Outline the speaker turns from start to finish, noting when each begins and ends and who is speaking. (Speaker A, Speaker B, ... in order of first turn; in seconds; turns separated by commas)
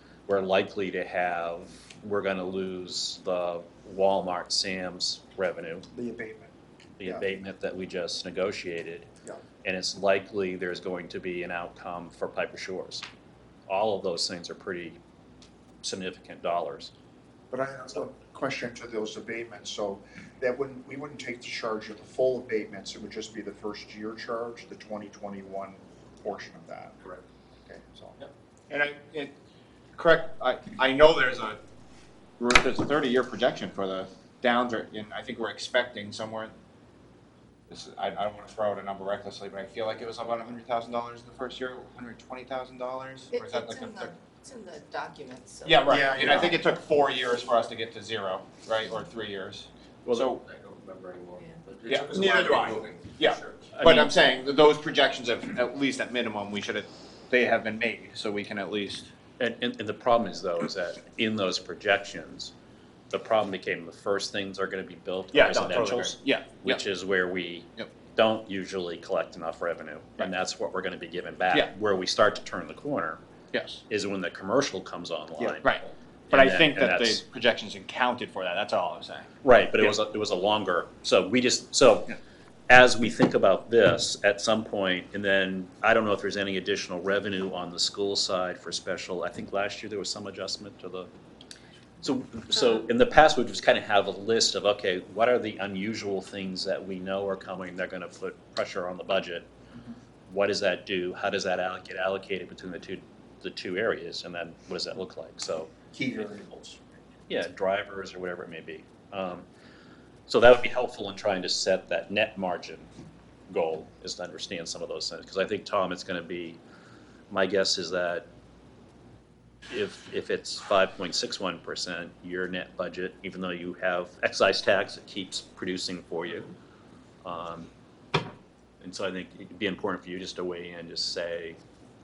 Speaker A: 0.3-5.8, Speaker B: 5.9-7.2, Speaker A: 7.0-9.1, Speaker A: 9.6-13.0, Speaker A: 13.7-15.0, Speaker A: 15.8-16.9, Speaker B: 17.5-27.0, Speaker B: 27.6-28.2, Speaker C: 28.7-29.3, Speaker C: 29.9-31.6, Speaker C: 32.4-36.5, Speaker C: 37.7-44.1, Speaker D: 43.3-46.3, Speaker C: 45.6-50.4, Speaker B: 45.9-46.5, Speaker E: 50.4-53.7, Speaker C: 51.9-52.6, Speaker B: 52.1-52.8, Speaker C: 53.1-59.1, Speaker A: 53.7-54.1, Speaker A: 59.4-62.5, Speaker A: 63.1-73.2, Speaker C: 65.3-66.8, Speaker C: 73.5-73.8, Speaker A: 73.9-77.2, Speaker C: 75.4-79.3, Speaker A: 79.4-82.1, Speaker A: 82.7-91.1, Speaker A: 92.0-99.5, Speaker A: 100.3-105.7, Speaker B: 105.9-107.0, Speaker A: 107.3-109.5, Speaker A: 110.3-112.9, Speaker A: 113.5-116.6, Speaker A: 117.3-118.2, Speaker A: 119.7-126.5, Speaker A: 127.2-127.7, Speaker A: 128.8-131.6